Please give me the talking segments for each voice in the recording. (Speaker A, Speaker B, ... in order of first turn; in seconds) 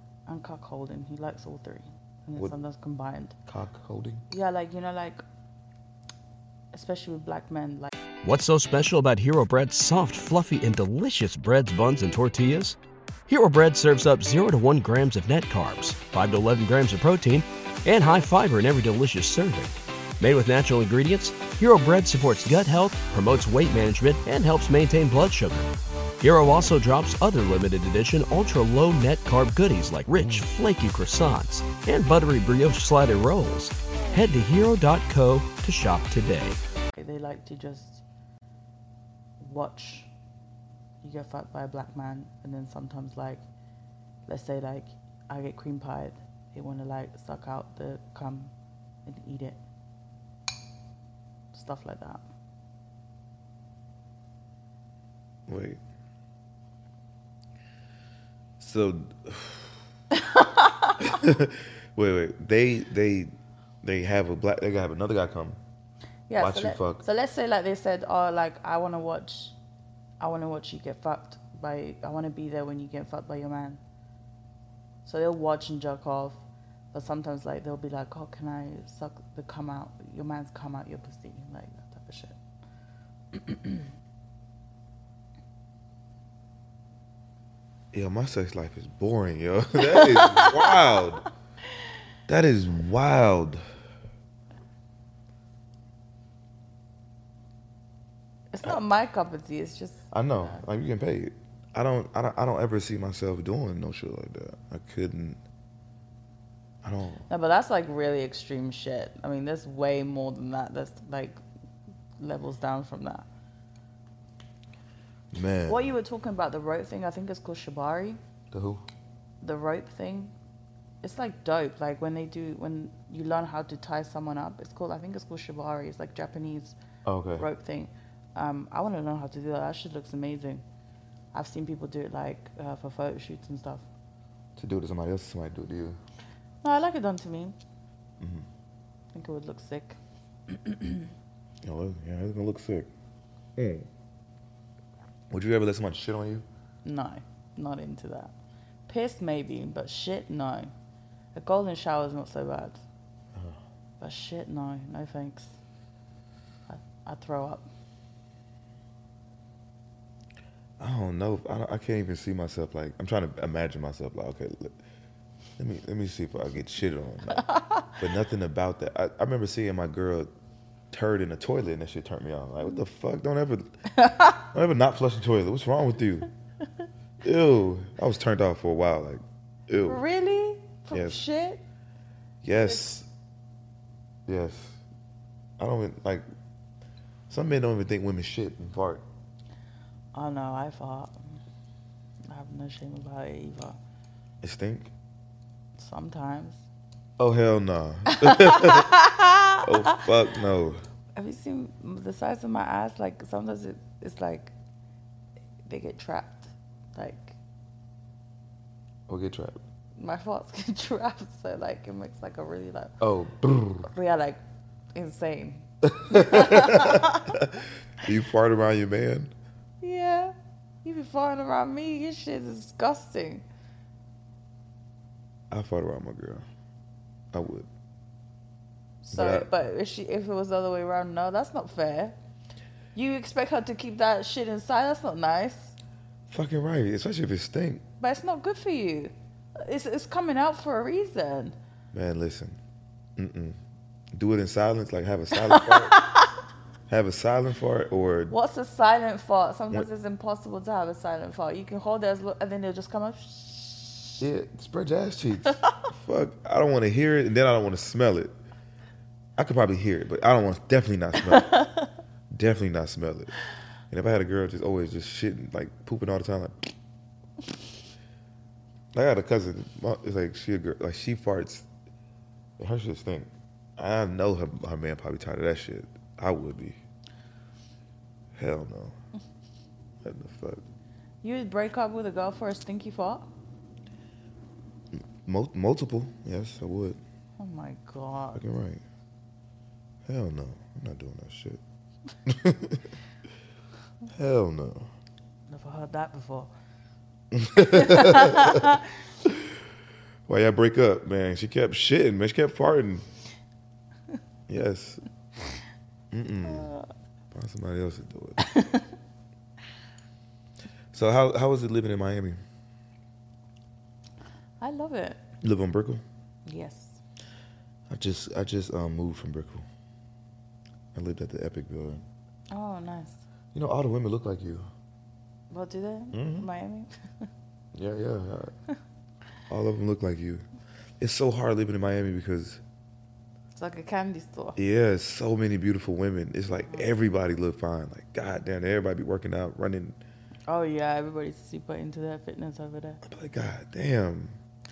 Speaker A: 0.3-3.4, 4.3-5.2, 6.7-7.9, 37.0-38.0, 39.4-40.1, 41.0-43.4, 44.3-48.5, 49.0-49.6, 51.5-52.2, 60.2-61.0, 66.3-69.6, 70.2-73.8, 75.0-82.4, 83.3-83.8, 89.8-91.0, 98.5-100.6, 107.3-111.4, 112.2-113.3, 115.7-118.2, 119.4-120.3, 121.0-126.8, 127.4-130.6, 131.3-133.8, 136.6-137.6, 139.1-140.0, 140.5-141.1, 146.8-148.3, 148.9-150.7, 151.3-152.8, 154.0-155.5, 156.7-157.7, 167.5-167.8, 174.0-174.3, 179.9-181.6, 182.5-182.9, 190.1-191.4, 192.2-193.8, 195.8-196.6, 198.1-200.1, 201.2-204.5, 205.6-207.4, 210.0-213.0, 213.9-214.4, 214.9-217.4, 219.8-223.4, 229.0-232.2, 232.9-235.8, 238.0-241.6, 245.5-246.3, 248.3-254.2, 261.3-261.9, 281.2-283.3, 287.4-288.4, 295.5-296.5, 297.6-298.8, 306.4-306.9, 308.4-308.9, 314.6-315.2, 316.5-317.0, 322.5-323.2, 325.5-327.3, 333.6-334.6, 336.6-336.9, 340.5-343.0
Speaker B: 3.5-4.3, 55.5-55.8, 58.6-59.8, 61.0-65.6, 66.4-67.0, 87.9-91.3, 92.3-93.6, 100.1-105.4, 106.8-107.3, 115.3-115.9, 118.5-118.8, 127.0-127.5, 134.6-136.0, 138.2-138.5, 141.6-142.9, 143.6-143.9, 145.3-146.4, 160.8-164.8, 165.6-170.3, 170.9-173.8, 174.3-176.3, 177.2-180.0, 180.9-181.2, 182.4-183.1, 184.3-184.8, 185.6-186.2, 187.3-189.0, 194.4-194.9, 197.2-200.8, 209.1-209.6, 213.0-213.9, 215.8-219.3, 225.5-226.4, 227.3-227.7, 229.1-229.5, 236.3-237.8, 241.9-242.6, 243.2-243.6, 244.1-246.0, 246.9-248.3, 254.2-258.3, 259.4-261.6, 262.3-263.4, 263.9-266.7, 268.9-271.7, 272.6-276.8, 278.4-278.9, 280.0-280.7, 284.9-287.0, 288.4-288.8, 290.1-291.6, 292.3-292.9, 294.1-294.9, 297.3-299.4, 300.3-303.1, 304.5-305.1, 306.1-306.7, 307.3-308.5, 310.9-312.4, 315.4-316.0, 317.9-319.6, 320.9-322.0, 323.5-324.7, 326.1-326.5, 327.7-328.5, 329.5-330.4, 331.0-332.6, 334.6-340.0, 343.0-344.4
Speaker C: 8.2-12.8, 13.3-36.6